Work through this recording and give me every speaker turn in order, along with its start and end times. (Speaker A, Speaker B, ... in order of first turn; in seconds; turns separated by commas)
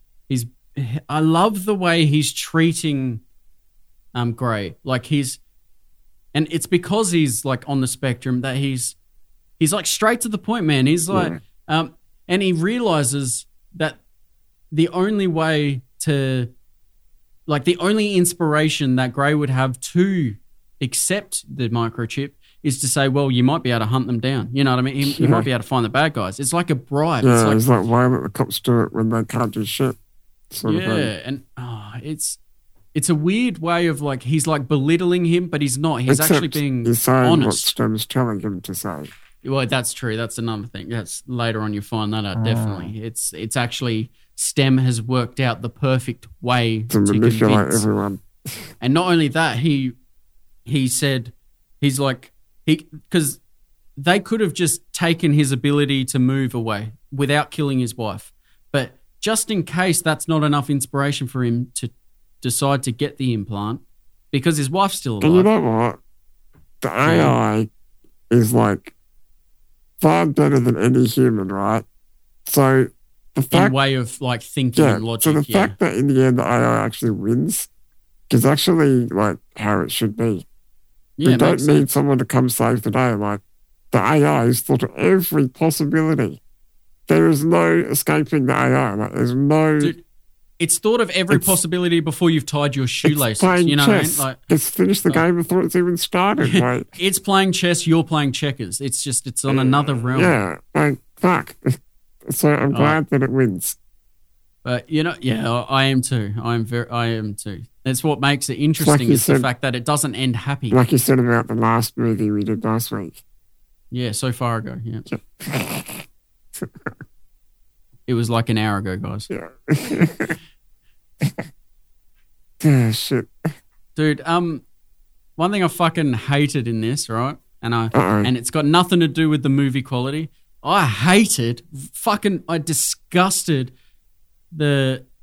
Speaker A: 0.3-3.2, Speaker A: 4.1-5.4, Speaker A: 6.3-8.9, Speaker A: 9.6-14.0, Speaker B: 11.1-11.4, Speaker A: 14.7-16.5, Speaker A: 17.5-27.6, Speaker B: 25.0-25.5, Speaker B: 27.2-30.0, Speaker B: 30.5-31.1, Speaker A: 30.6-32.4, Speaker A: 32.9-37.7, Speaker B: 36.1-39.1, Speaker A: 39.4-47.8, Speaker B: 42.4-42.9, Speaker B: 46.9-48.2, Speaker A: 48.8-50.0, Speaker A: 50.6-53.4, Speaker A: 54.0-65.5, Speaker B: 65.2-66.0, Speaker B: 66.8-67.7, Speaker A: 67.0-67.3, Speaker B: 68.3-68.9, Speaker B: 70.0-71.8, Speaker B: 72.5-73.8, Speaker A: 73.5-75.8, Speaker B: 74.7-77.7, Speaker B: 78.3-80.5, Speaker A: 81.2-81.8, Speaker B: 81.2-86.4, Speaker B: 87.1-89.9, Speaker A: 90.6-94.4, Speaker B: 91.3-91.5, Speaker B: 93.0-96.9, Speaker A: 96.4-100.3, Speaker B: 99.5-103.8, Speaker A: 102.7-103.0, Speaker A: 104.6-110.8, Speaker B: 108.8-109.5, Speaker B: 110.7-113.2, Speaker A: 113.9-115.0, Speaker B: 115.1-116.1, Speaker A: 118.1-119.3, Speaker B: 119.3-120.3, Speaker B: 122.6-123.3, Speaker A: 124.0-124.6, Speaker A: 125.4-133.7, Speaker B: 127.9-128.3, Speaker A: 134.5-135.0